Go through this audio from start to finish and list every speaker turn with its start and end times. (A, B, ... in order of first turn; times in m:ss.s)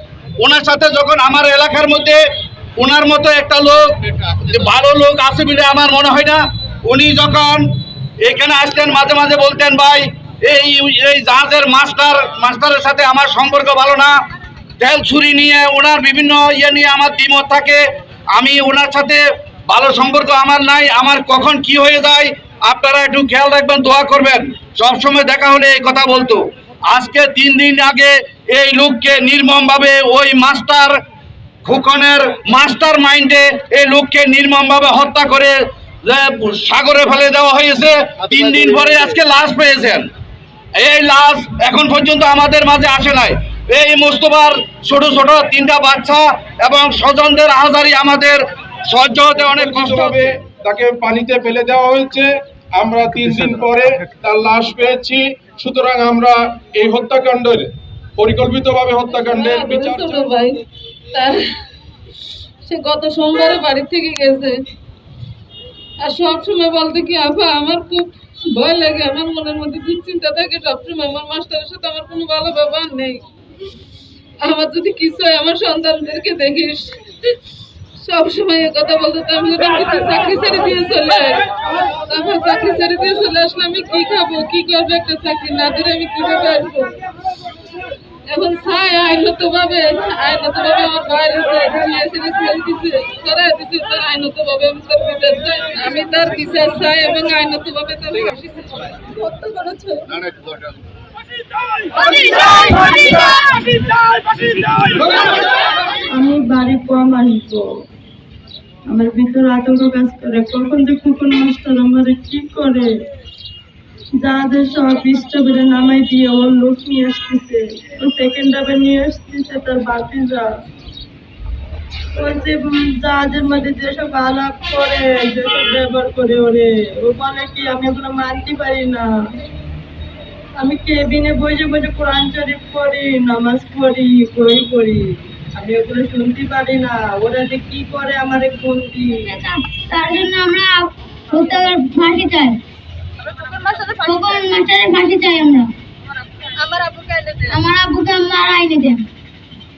0:00.4-0:02.2 A
0:02.8-0:07.7 A
0:08.2-0:14.2 A
0:14.8-0:17.8 A
0:18.3-0:31.0 A
0:31.6-0:40.1 A
0:40.8-0:50.3 A
0:49.5-1:00.3 B
0:59.1-1:01.6 C
1:02.6-1:04.6 C
1:06.0-1:13.2 C
1:14.4-1:17.4 C
1:18.0-1:27.0 C
1:28.3-1:40.3 C
1:43.3-1:45.2 A
1:46.1-1:47.7 D
1:48.9-1:53.0 D
1:54.2-2:00.5 D
2:02.2-2:09.1 D
2:10.6-2:19.3 D
2:19.3-2:22.6 E
2:23.9-2:25.7 E
2:27.4-2:29.1 E